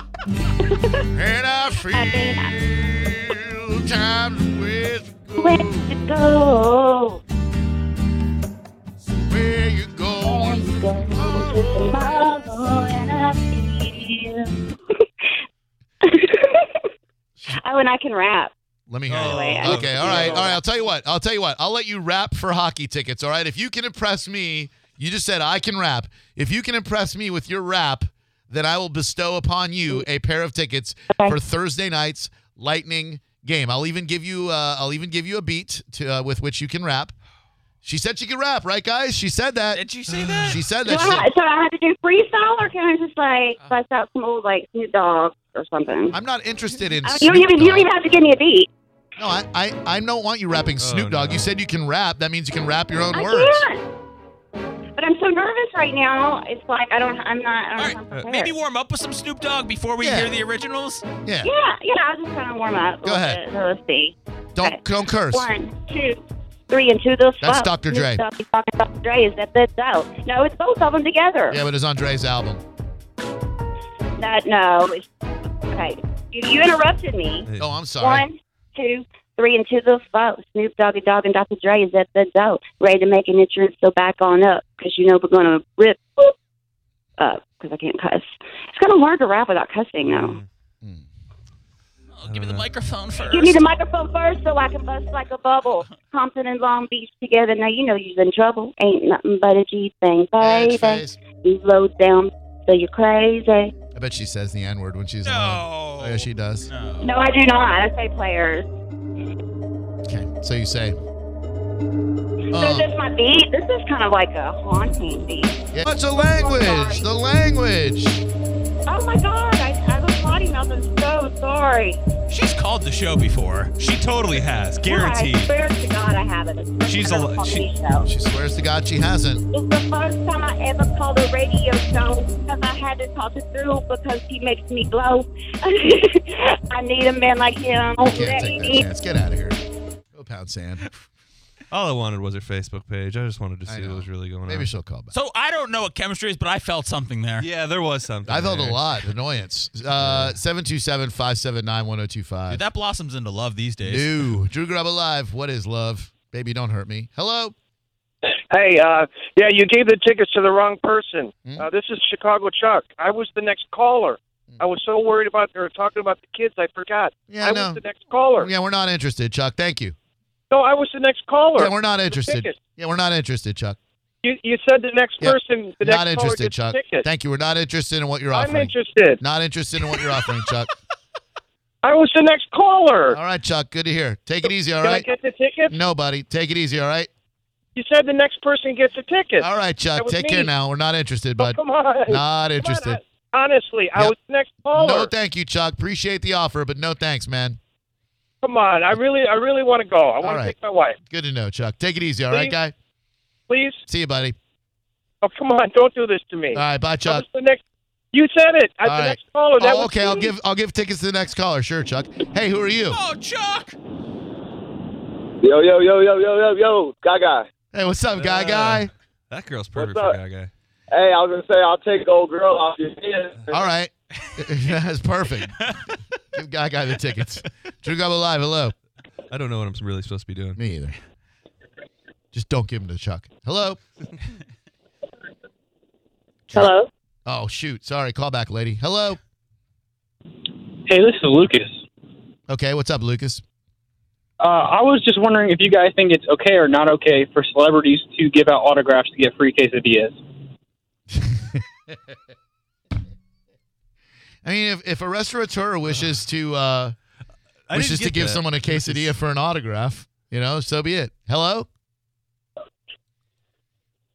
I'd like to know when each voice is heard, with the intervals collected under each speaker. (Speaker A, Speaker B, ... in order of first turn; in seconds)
Speaker A: 0.6-1.1, 1.9-2.6, 5.4-7.2, 10.2-14.7, 16.0-16.8, 17.5-18.5, 19.2-20.6, 40.8-46.2, 47.0-48.7, 53.1-53.8, 55.0-58.5, 61.4-71.6, 74.2-75.1, 75.7-77.5, 78.0-86.3, 87.2-90.4, 93.2-103.7, 107.0-108.7, 112.5-115.5, 116.2-117.1, 118.9-122.0, 124.8-128.1, 129.5-138.9
Speaker B: 1.1-5.9, 9.3-11.7, 18.9-37.1, 37.8-39.8, 40.5-41.2, 46.1-47.9, 49.2-53.7, 60.0-60.3, 61.2-61.5, 63.0-63.4, 64.5-65.5, 67.4-68.2, 71.5-72.6, 77.6-78.3, 100.4-101.2, 103.9-106.7, 110.0-111.0, 112.5-112.9, 115.7-118.2, 128.0-129.4, 138.0-139.6, 140.1-140.9, 143.7-145.1, 148.3-152.6, 153.8-157.5, 167.3-167.8, 168.3-169.9, 171.6-173.8, 175.2-180.7, 183.1-185.1, 185.7-187.1, 189.4-193.0, 194.7-197.6, 200.2-200.5, 201.1-202.7, 203.9-204.3, 206.5-207.2, 208.8-213.0, 217.7-218.9, 223.5-225.6, 226.3-228.7, 230.6-231.0, 232.3-233.8, 236.5-239.2, 242.5-243.4, 251.2-251.6, 254.4-256.9, 257.7-261.7
Speaker C: 19.1-20.5, 50.8-51.5, 77.5-77.8, 90.1-90.4, 92.2-92.7, 123.8-125.5, 126.8-127.7, 141.7-144.7, 147.4-148.8, 150.0-150.3, 218.2-220.5, 229.3-230.6, 257.7-259.1
Speaker D: 39.7-40.6, 57.8-61.0, 92.1-93.6, 105.2-107.1, 122.3-123.7, 145.1-147.5, 152.5-154.3, 212.9-213.8, 225.6-225.9
Speaker E: 158.5-168.5, 170.5-172.6, 174.2-177.1, 178.3-179.2, 181.8-183.2, 184.8-185.7, 187.8-190.5, 191.4-195.1, 198.4-201.0, 202.3-202.5, 203.5-203.8, 205.2-207.6, 208.1-210.3
Speaker F: 215.4-217.5, 219.7-220.2, 220.9-223.4
Speaker G: 236.5-236.9, 240.8-241.8, 244.4-250.2